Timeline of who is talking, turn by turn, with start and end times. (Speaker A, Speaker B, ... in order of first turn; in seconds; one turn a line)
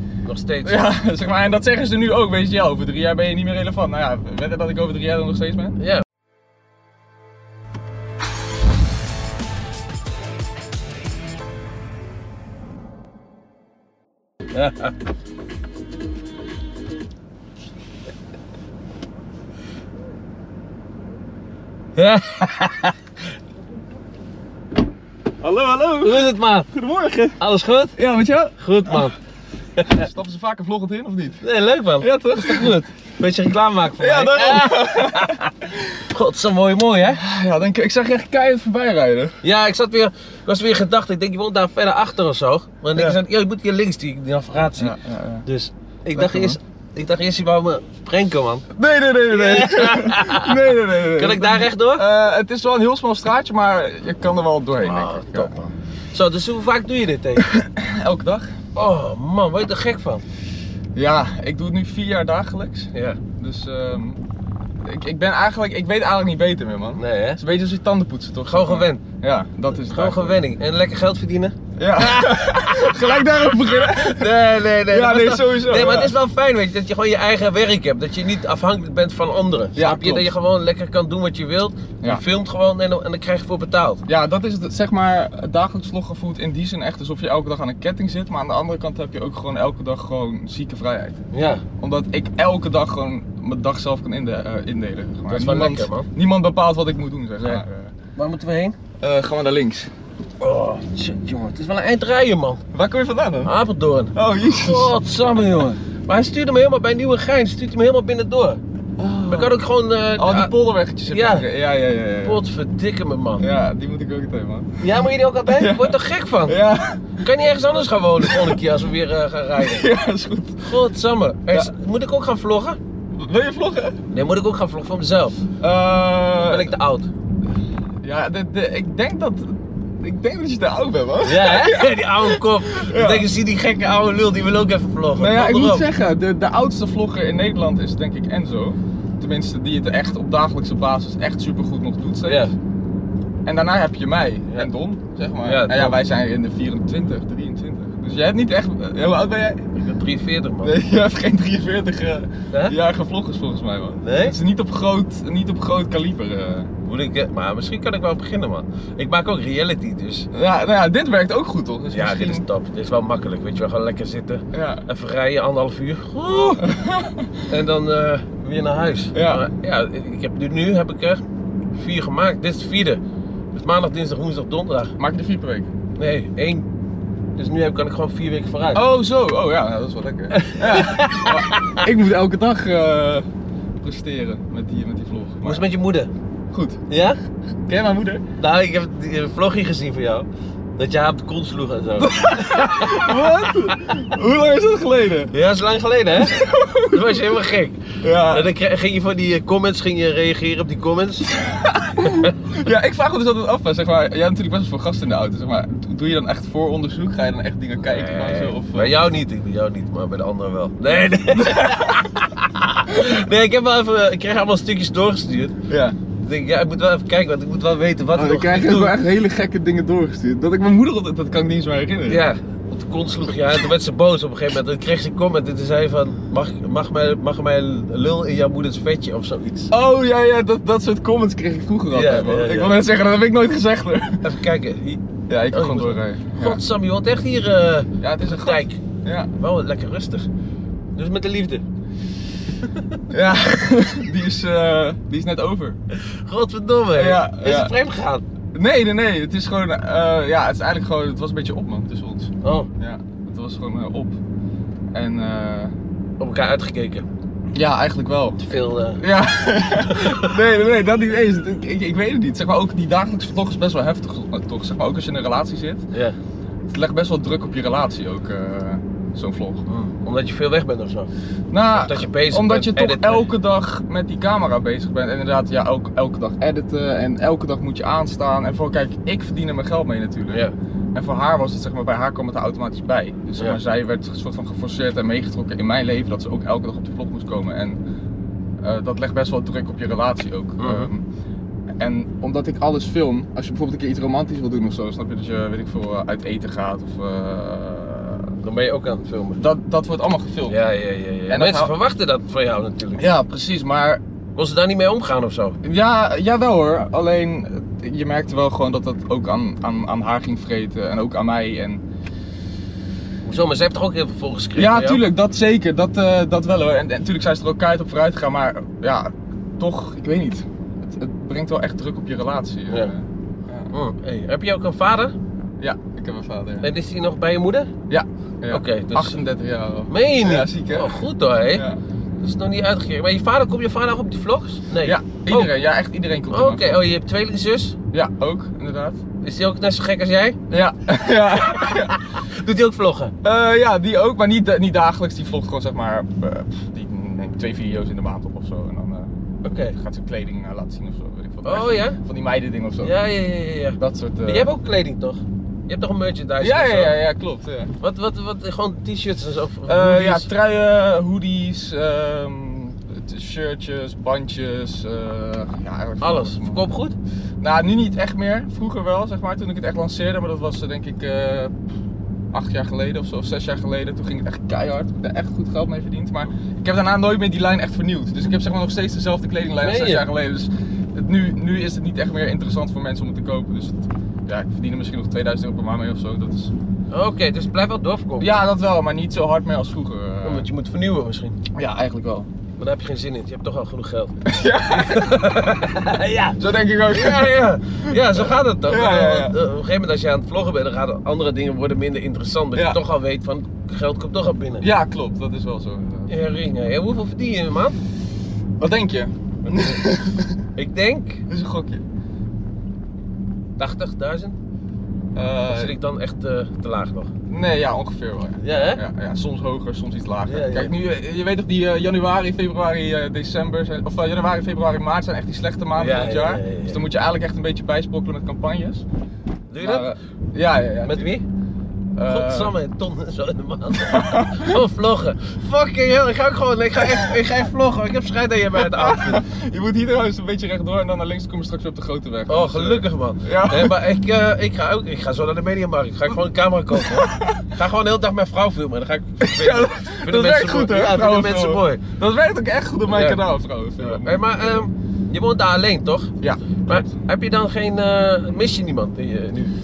Speaker A: 0.2-0.8
Speaker B: 0.6-5.8
Speaker A: 5.8-6.0
Speaker A: 14.5-14.9
Speaker A: 21.9-23.0
Speaker B: 25.4-27.4
Speaker A: 26.0-26.7
Speaker A: 27.4-28.0
Speaker B: 27.9-29.0
Speaker A: 28.6-29.1
Speaker A: 29.8-30.1
Speaker B: 29.8-31.4
Speaker A: 31.4-35.5
Speaker B: 32.0-32.8
Speaker B: 34.0-36.1
Speaker A: 36.1-37.2
Speaker B: 37.1-39.4
Speaker A: 39.4-48.6
Speaker B: 44.8-45.5
Speaker B: 46.1-46.6
Speaker B: 48.7-55.6
Speaker A: 49.3-52.0
Speaker A: 54.8-57.5
Speaker B: 57.4-58.6
Speaker A: 58.7-60.2
Speaker B: 60.9-64.2
Speaker A: 62.9-63.2
Speaker B: 64.8-70.4
Speaker A: 67.0-67.4
Speaker A: 68.4-69.0
Speaker A: 69.8-84.0
Speaker B: 71.8-76.1
Speaker B: 79.7-80.3
Speaker B: 84.1-91.2
Speaker A: 91.3-91.6
Speaker B: 91.8-97.9
Speaker A: 95.3-96.1
Speaker A: 98.2-98.8
Speaker B: 99.0-99.9
Speaker A: 100.4-102.6
Speaker B: 102.7-103.5
Speaker A: 103.4-108.6
Speaker B: 104.1-105.0
Speaker B: 109.0-109.6
Speaker A: 109.2-110.5
Speaker B: 110.2-112.4
Speaker A: 111.1-111.5
Speaker A: 112.2-113.5
Speaker B: 113.4-117.3
Speaker A: 114.8-116.6
Speaker A: 117.2-119.8
Speaker B: 118.2-118.6
Speaker B: 119.6-120.7
Speaker A: 120.6-122.8
Speaker B: 123.1-124.0
Speaker A: 124.1-125.4
Speaker B: 125.6-126.7
Speaker A: 126.4-127.1
Speaker B: 128.0-133.3
Speaker A: 131.2-135.9
Speaker B: 135.1-142.5
Speaker A: 142.2-142.5
Speaker B: 143.4-149.8
Speaker A: 145.4-146.0
Speaker A: 149.8-150.7
Speaker B: 150.6-156.7
Speaker A: 152.5-152.8
Speaker A: 154.0-154.4
Speaker A: 156.8-160.3
Speaker B: 160.3-162.4
Speaker A: 161.9-166.7
Speaker B: 164.5-164.8
Speaker B: 166.6-167.5
Speaker A: 167.5-171.2
Speaker B: 169.1-169.4
Speaker A: 171.7-173.0
Speaker A: 173.5-174.9
Speaker B: 175.0-175.7
Speaker A: 175.9-176.7
Speaker A: 177.3-178.8
Speaker B: 178.7-183.3
Speaker A: 180.3-181.9
Speaker B: 183.8-185.7
Speaker A: 185.4-186.1
Speaker B: 186.5-186.8
Speaker A: 186.9-187.2
Speaker B: 187.7-188.2
Speaker A: 188.4-190.2
Speaker A: 190.8-194.0
Speaker B: 192.0-195.3
Speaker A: 195.3-201.3
Speaker B: 196.2-197.3
Speaker B: 198.0-198.5
Speaker B: 201.4-209.0
Speaker A: 202.0-202.3
Speaker A: 207.8-215.5
Speaker B: 211.3-212.1
Speaker B: 215.7-215.9
Speaker A: 216.2-218.9
Speaker B: 218.1-222.2
Speaker A: 222.1-229.7
Speaker B: 229.7-234.3
Speaker A: 231.9-232.8
Speaker A: 234.2-238.8
Speaker B: 235.3-236.6
Speaker B: 238.0-239.3
Speaker A: 239.3-240.3
Speaker A: 240.9-241.6
Speaker A: 242.6-242.9
Speaker B: 243.1-245.8
Speaker A: 245.9-248.2
Speaker B: 246.9-247.7
Speaker B: 248.5-254.2
Speaker A: 252.4-252.7
Speaker B: 254.9-255.7
Speaker A: 256.2-257.1
Speaker B: 257.5-265.9
Speaker A: 258.4-259.0
Speaker A: 259.9-260.3
Speaker B: 266.7-269.6
Speaker A: 269.7-271.1
Speaker B: 271.5-287.8
Speaker A: 271.7-273.3
Speaker B: 288.6-291.0
Speaker A: 290.6-290.9
Speaker B: 291.8-298.4
Speaker A: 298.4-299.4
Speaker B: 299.4-300.6
Speaker A: 300.5-303.1
Speaker B: 301.3-301.7
Speaker B: 303.0-304.0
Speaker A: 304.3-305.6
Speaker B: 305.6-311.8
Speaker A: 313.2-315.0
Speaker B: 314.6-323.7
Speaker A: 323.7-325.1
Speaker B: 325.6-326.7
Speaker A: 326.6-327.7
Speaker B: 327.9-331.8
Speaker A: 328.5-329.2
Speaker A: 329.9-331.6
Speaker A: 332.2-335.5
Speaker B: 334.8-336.8
Speaker A: 336.3-337.8
Speaker B: 337.9-339.0
Speaker A: 339.2-340.4
Speaker B: 340.5-342.1
Speaker A: 341.5-343.1
Speaker B: 343.2-352.9
Speaker A: 349.4-349.8
Speaker A: 351.4-352.0
Speaker A: 352.8-357.0
Speaker B: 353.8-354.5
Speaker B: 356.4-357.7
Speaker A: 357.8-360.3
Speaker B: 359.6-366.6
Speaker A: 366.0-366.9
Speaker B: 367.4-371.6
Speaker B: 372.3-386.5
Speaker A: 379.6-380.0
Speaker A: 386.9-388.3
Speaker B: 388.2-390.5
Speaker A: 390.2-391.4
Speaker B: 391.5-392.3
Speaker A: 392.6-394.1
Speaker B: 394.2-395.7
Speaker A: 394.7-404.6
Speaker B: 396.4-399.4
Speaker B: 404.6-406.1
Speaker A: 406.1-407.8
Speaker B: 408.6-410.4
Speaker A: 409.5-409.8
Speaker A: 410.6-411.2
Speaker B: 411.3-411.8
Speaker A: 413.6-414.4
Speaker B: 415.1-415.8
Speaker A: 415.5-417.1
Speaker B: 417.3-428.8
Speaker A: 418.4-418.8
Speaker A: 420.2-420.7
Speaker A: 425.8-426.8
Speaker A: 429.5-429.9
Speaker B: 429.6-431.2
Speaker A: 430.8-431.2
Speaker B: 431.9-432.5
Speaker A: 432.0-439.2
Speaker B: 433.7-434.6
Speaker B: 436.9-437.1
Speaker B: 438.6-443.8
Speaker A: 442.3-451.8
Speaker B: 446.8-447.5
Speaker B: 449.2-454.6
Speaker A: 452.9-453.2
Speaker A: 453.8-456.1
Speaker B: 456.2-456.9
Speaker A: 456.6-459.5